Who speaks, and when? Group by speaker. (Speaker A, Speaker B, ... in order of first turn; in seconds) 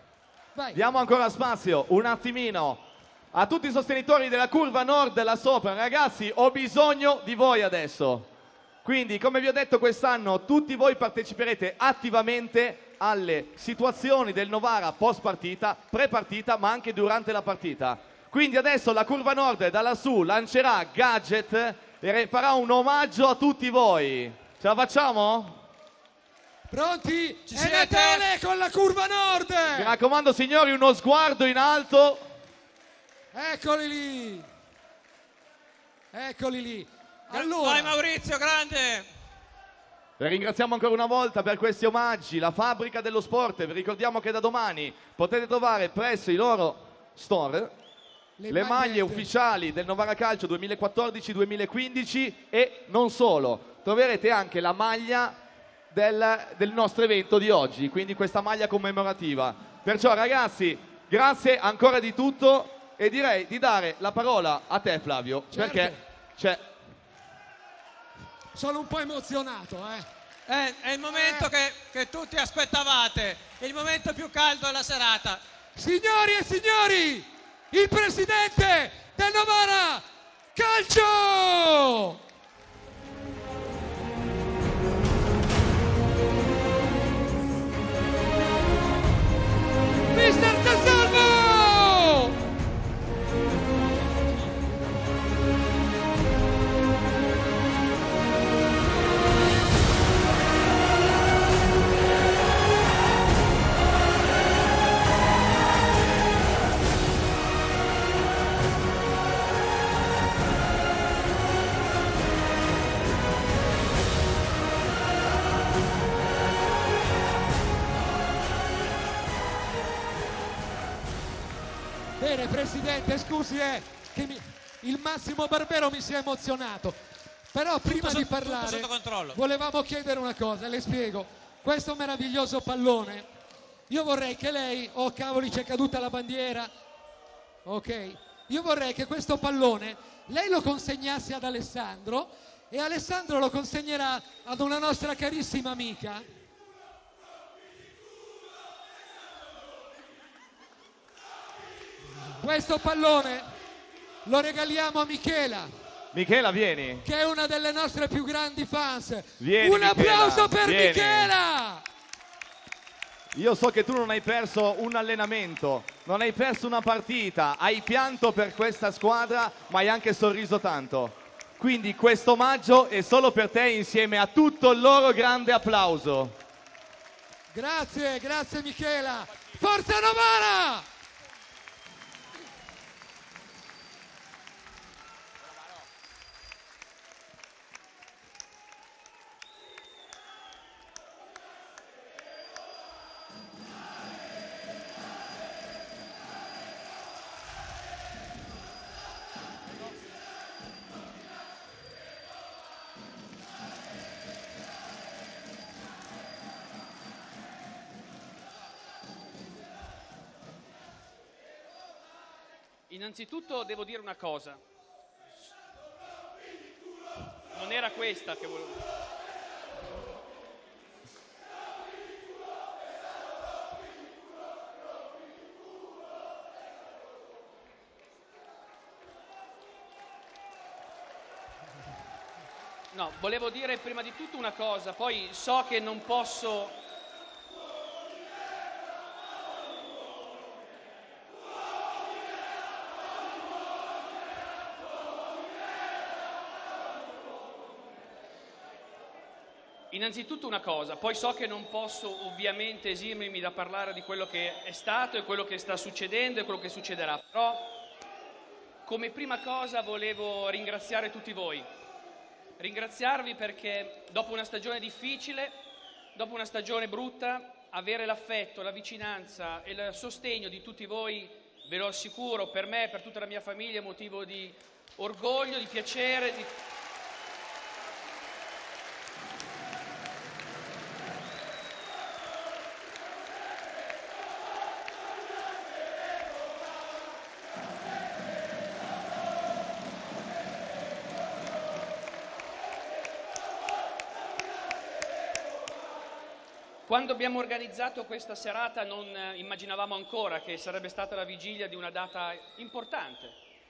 Speaker A: 0.5-0.8, 26.7-29.9, 33.3-34.5, 36.1-38.0, 48.4-49.3, 65.5-66.0, 68.5-70.1, 71.1-71.5, 75.8-82.2, 90.1-92.4, 122.2-127.0, 127.5-133.3, 133.9-136.7, 137.7-146.2, 152.4-153.5, 154.2-155.7, 157.0-161.8, 177.5-180.9
Speaker B: 0.7-8.3, 8.8-25.6, 29.8-32.3, 40.2-47.7, 48.5-55.4, 55.9-66.7, 156.1-157.1, 159.4-161.3, 163.3-176.4
Speaker C: 27.5-28.3, 37.3-39.1, 70.5-75.4, 127.8-129.4
Speaker D: 212.9-214.6, 217.5-218.9, 232.9-236.8, 249.9-257.7, 258.9-261.7, 262.6-265.6, 266.1-276.5, 296.9-303.4